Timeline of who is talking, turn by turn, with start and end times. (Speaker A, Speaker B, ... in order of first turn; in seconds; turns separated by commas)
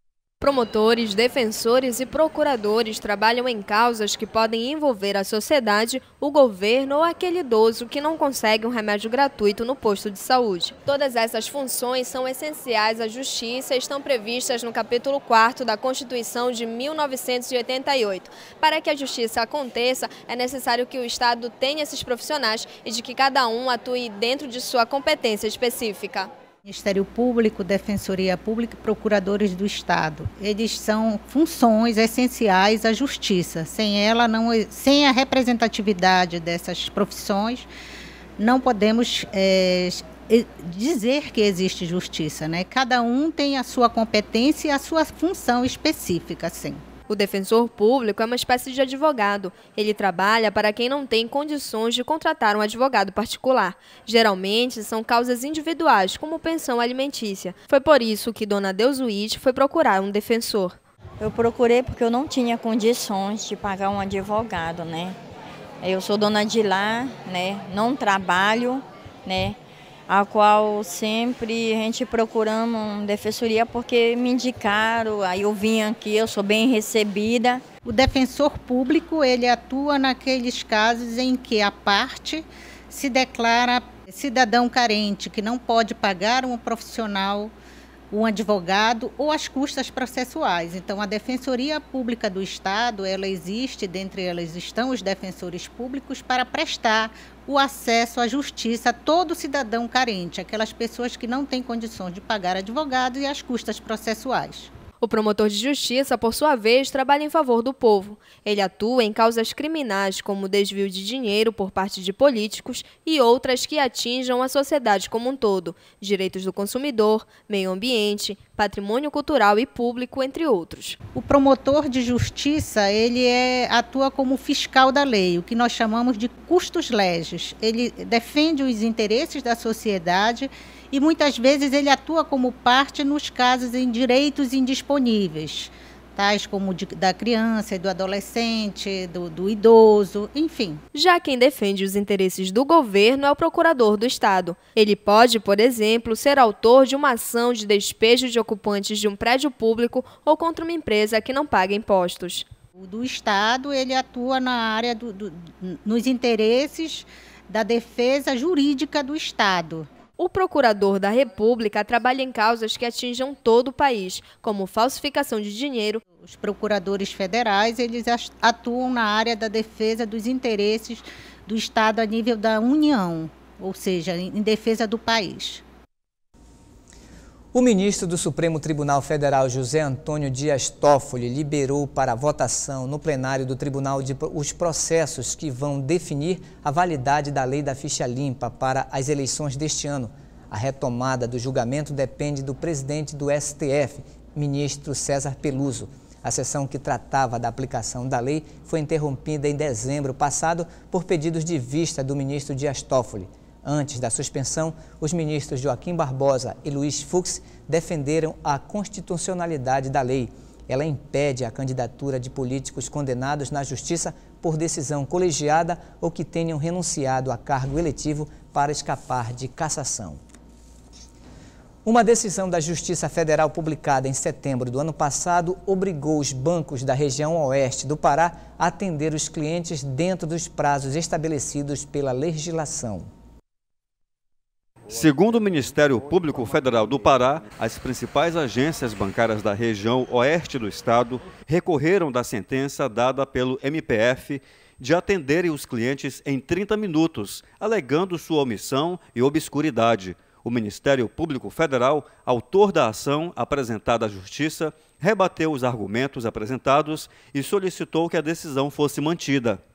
Speaker A: 0.4-26.3, Speaker B: 26.6-37.7, Speaker B: 38.4-46.8, Speaker A: 47.1-60.8, Speaker C: 61.2-65.2, Speaker C: 65.8-69.6, Speaker C: 70.1-77.6, Speaker B: 77.8-87.5, Speaker B: 88.1-104.7, Speaker A: 105.0-121.0, Speaker B: 121.2-140.8, Speaker A: 140.9-152.5, Speaker B: 152.8-159.9, Speaker A: 160.2-166.0, Speaker B: 166.2-175.6, Speaker D: 177.5-220.2, Speaker D: 221.8-233.1, Speaker E: 234.9-259.6